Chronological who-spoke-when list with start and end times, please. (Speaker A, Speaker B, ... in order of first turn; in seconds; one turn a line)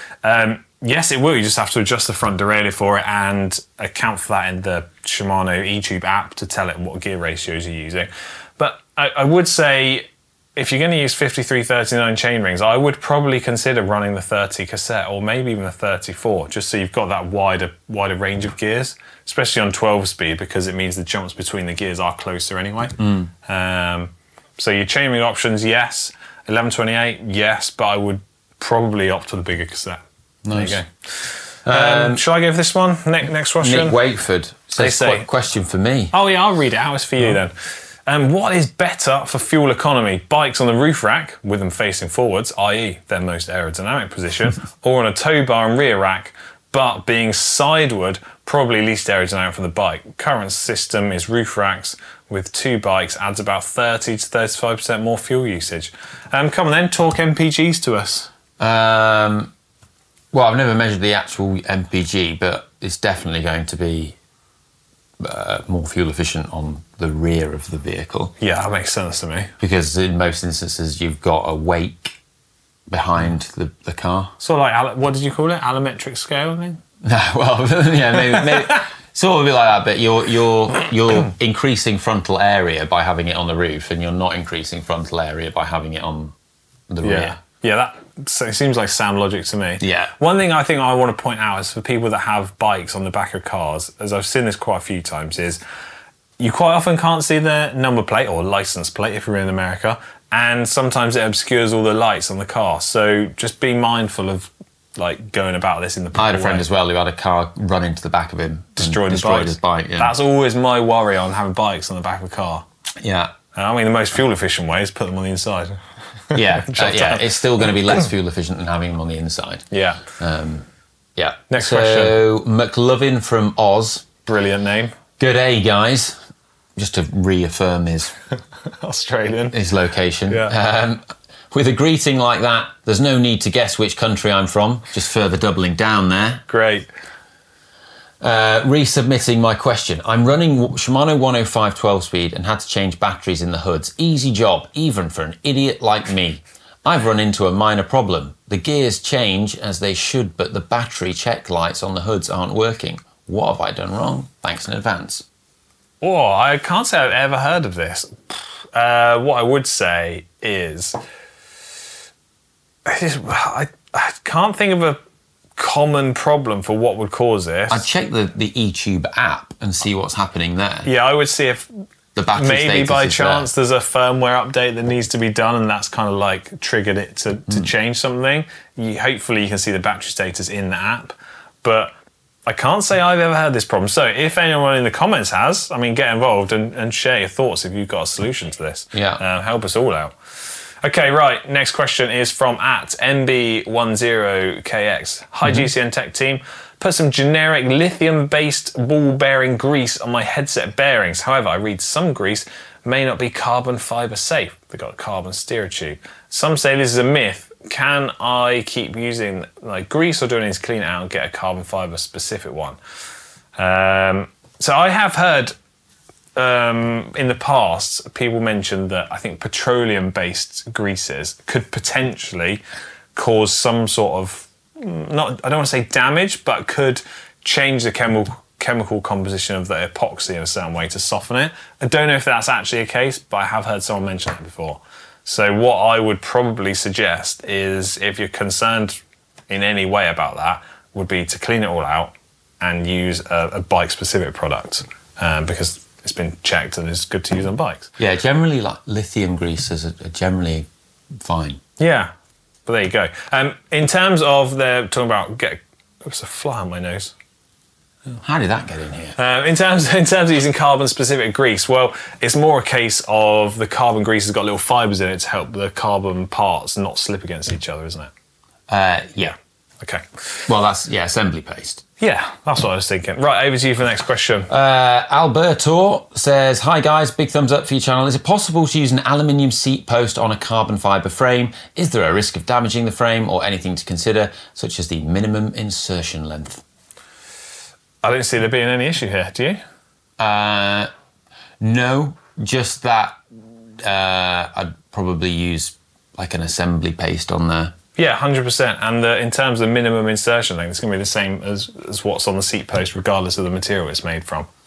Speaker A: 0.2-30.0
Speaker B: 30.5-30.8
Speaker A: 30.5-34.0
Speaker B: 31.7-32.2
Speaker B: 33.6-36.1
Speaker A: 34.8-35.3
Speaker A: 36.1-58.3
Speaker B: 58.6-59.5
Speaker B: 60.3-64.2
Speaker B: 65.2-68.3
Speaker A: 68.4-69.5
Speaker B: 69.6-72.2
Speaker B: 72.9-74.3
Speaker A: 74.4-76.8
Speaker B: 77.0-86.3
Speaker B: 86.9-87.4
Speaker A: 87.0-95.6
Speaker B: 89.8-90.1
Speaker A: 96.4-106.7
Speaker B: 106.2-110.1
Speaker A: 108.8-112.7
Speaker B: 113.0-113.3
Speaker A: 113.5-117.8
Speaker B: 116.3-120.7
Speaker A: 119.7-120.0
Speaker B: 121.2-124.1
Speaker A: 121.5-122.2
Speaker A: 124.2-125.0
Speaker B: 125.2-126.2
Speaker B: 126.8-128.1
Speaker A: 128.8-129.6
Speaker B: 129.5-136.4
Speaker A: 136.5-136.9
Speaker B: 138.2-155.2
Speaker A: 156.0-161.0
Speaker A: 162.9-165.0
Speaker A: 165.6-167.8
Speaker B: 167.7-170.9
Speaker A: 170.8-171.7
Speaker B: 172.2-173.5
Speaker A: 172.3-181.9
Speaker A: 182.5-190.2
Speaker B: 188.9-189.2
Speaker A: 190.8-212.8
Speaker A: 213.6-215.5
Speaker A: 216.4-222.6
Speaker A: 223.2-247.9
Speaker B: 248.0-250.7
Speaker B: 251.2-251.6
Speaker A: 251.8-252.1
Speaker A: 252.7-257.1
Speaker B: 258.2-259.2
Speaker A: 259.2-268.1
Speaker B: 268.7-269.4
Speaker A: 269.8-270.5
Speaker B: 270.5-271.8
Speaker A: 272.0-274.5
Speaker B: 274.5-286.6
Speaker A: 288.0-289.6
Speaker B: 290.2-290.9
Speaker B: 291.6-293.2
Speaker B: 293.8-297.7
Speaker A: 298.0-304.5